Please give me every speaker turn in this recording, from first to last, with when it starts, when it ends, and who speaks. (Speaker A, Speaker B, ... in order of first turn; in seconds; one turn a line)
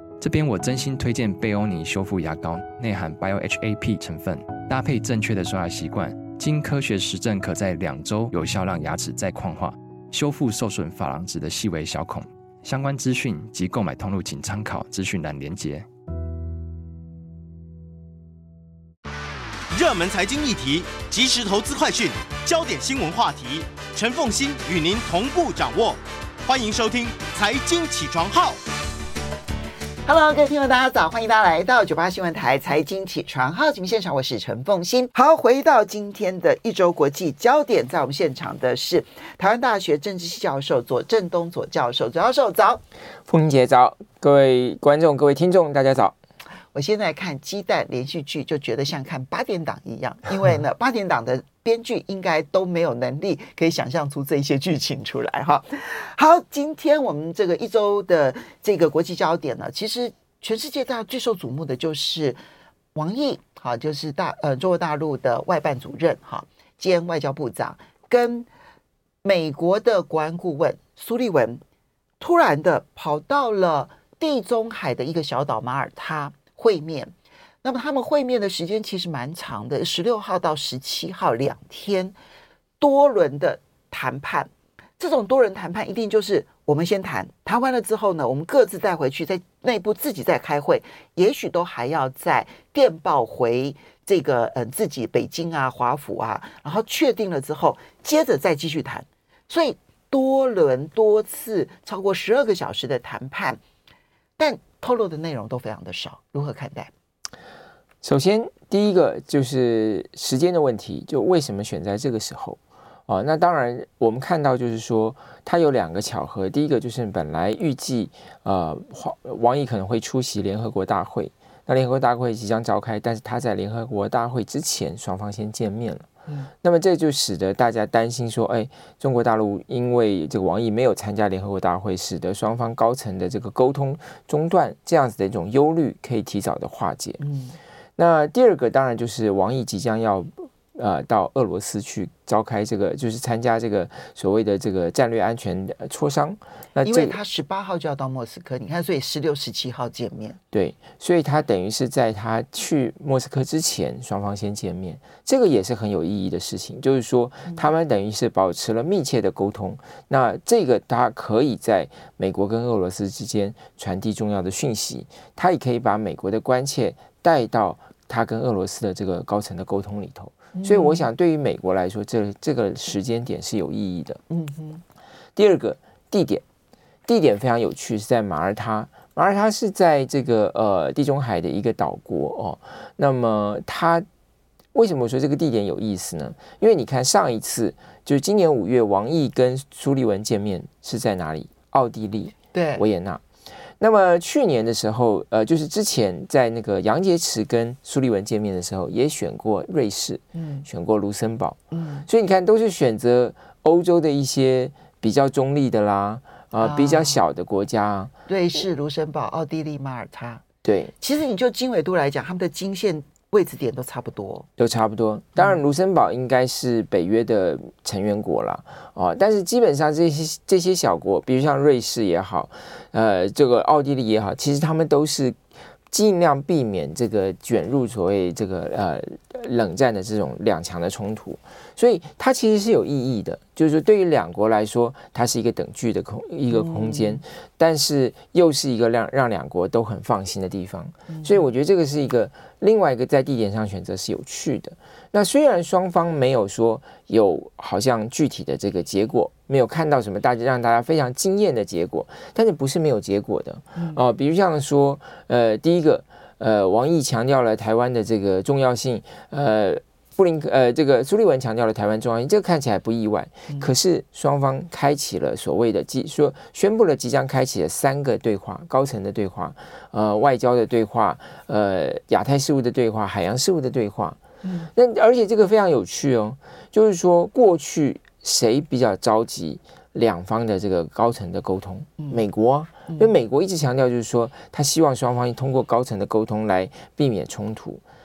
Speaker A: 0.2-15.9
Speaker B: 19.7-28.6
Speaker C: 30.1-42.8
Speaker D: 43.3-46.2
Speaker C: 46.7-62.4
Speaker C: 63.0-68.5
Speaker C: 69.2-71.6
Speaker C: 72.2-82.2
Speaker C: 82.8-103.6
Speaker C: 104.4-106.9
Speaker D: 108.0-126.1
Speaker D: 126.6-137.2
Speaker C: 137.2-137.6
Speaker D: 138.0-147.2
Speaker C: 146.8-150.4
Speaker D: 150.5-174.2
Speaker C: 170.5-171.1
Speaker C: 174.3-174.8
Speaker D: 175.4-176.4
Speaker D: 177.1-184.1
Speaker D: 184.7-193.2
Speaker C: 192.5-192.8
Speaker D: 193.8-208.1
Speaker C: 200.3-200.7
Speaker C: 201.7-202.1
Speaker C: 206.6-207.2
Speaker C: 208.3-210.4
Speaker D: 210.7-210.9
Speaker C: 211.0-214.5
Speaker D: 214.6-274.2
Speaker C: 236.5-237.2
Speaker C: 241.1-241.4
Speaker C: 253.8-254.0
Speaker C: 274.4-274.7
Speaker D: 274.8-287.8